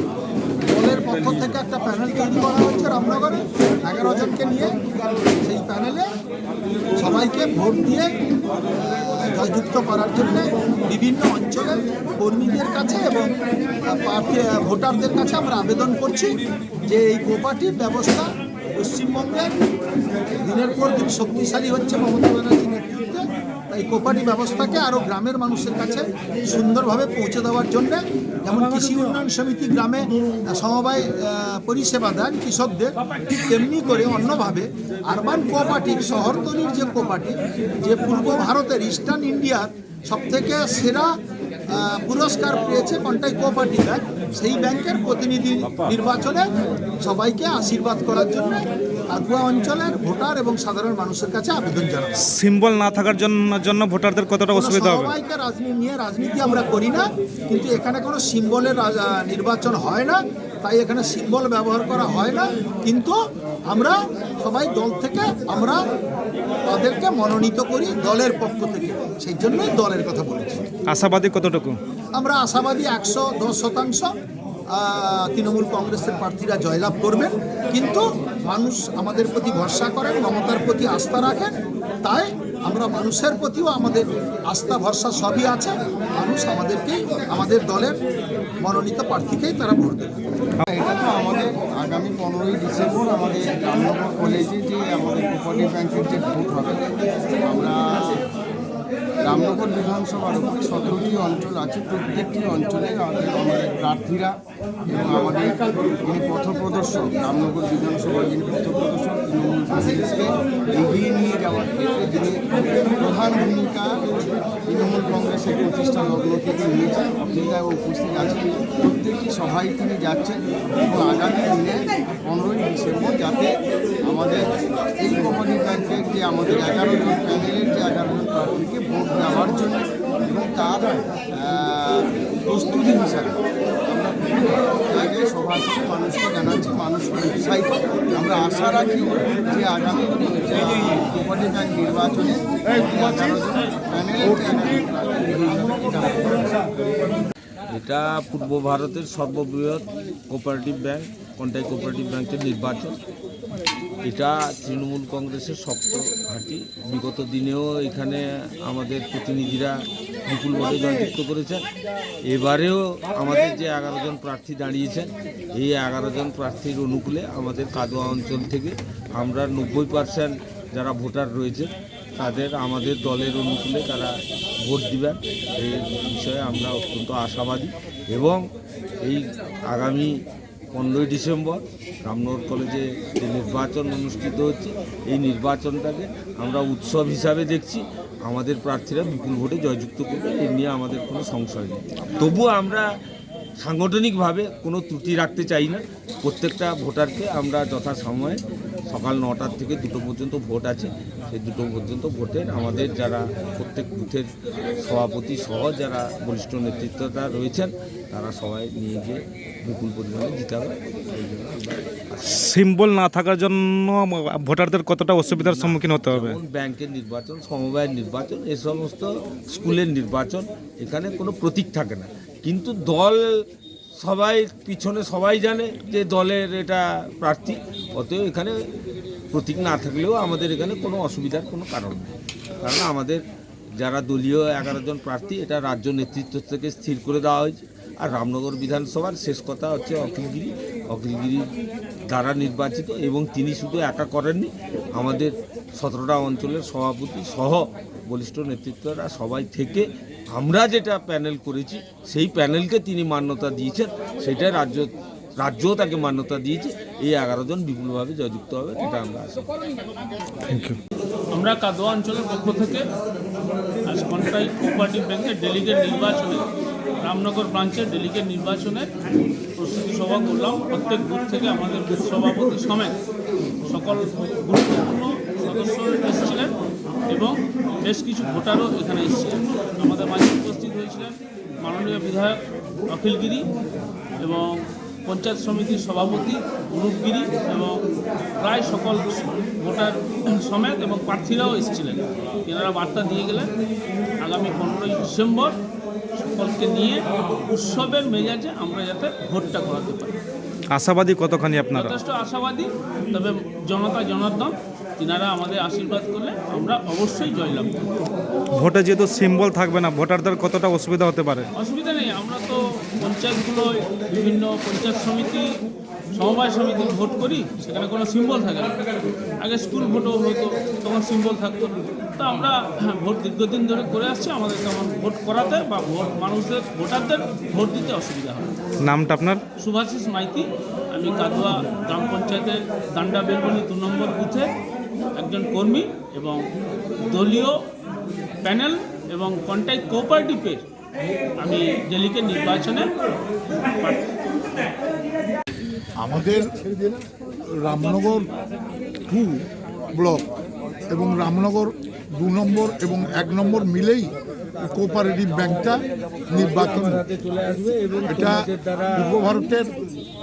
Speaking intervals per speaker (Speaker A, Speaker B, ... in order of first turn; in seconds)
Speaker A: 0.7-4.8, 5.4-6.1, 6.9-8.1, 8.8-13.3, 13.8-19.5, 20.4-41.1, 41.7-46.5, 47.0-52.1, 54.5-63.1, 63.7-65.8, 66.7-70.7, 72.2-74.1, 74.7-88.0, 88.6-90.2
Speaker B: 52.2-55.1, 70.9-71.8, 212.2-216.4, 260.5-260.8, 300.7-302.0, 308.5-311.5, 328.8-329.4
Speaker C: 90.7-96.9, 97.4-98.2, 99.2-104.3, 104.9-113.9, 114.7-123.5, 124.0-124.5, 125.0-146.6
Speaker D: 147.7-153.0, 154.0-159.8, 160.3-161.6, 162.3-178.4, 179.0-180.1, 180.7-192.8, 193.6-204.3, 204.8-212.3, 215.3-223.2, 224.0-228.5, 229.3-233.2, 233.8-241.4, 242.1-259.5
Speaker E: 261.3-262.9, 263.9-266.5, 267.0-268.9, 269.6-272.9, 273.6-276.5, 277.1-283.5, 284.2-287.8, 288.4-293.5, 294.2-295.6, 296.1-300.1, 301.8-307.7, 311.5-315.5, 316.1-318.8, 319.4-328.5, 329.6-334.5, 335.1-336.5, 337.0-337.6, 338.4-340.6, 341.4-342.9, 343.7-344.1
Speaker F: 346.0-346.6, 347.5-348.3, 349.1-350.3, 350.9-357.2, 358.0-359.7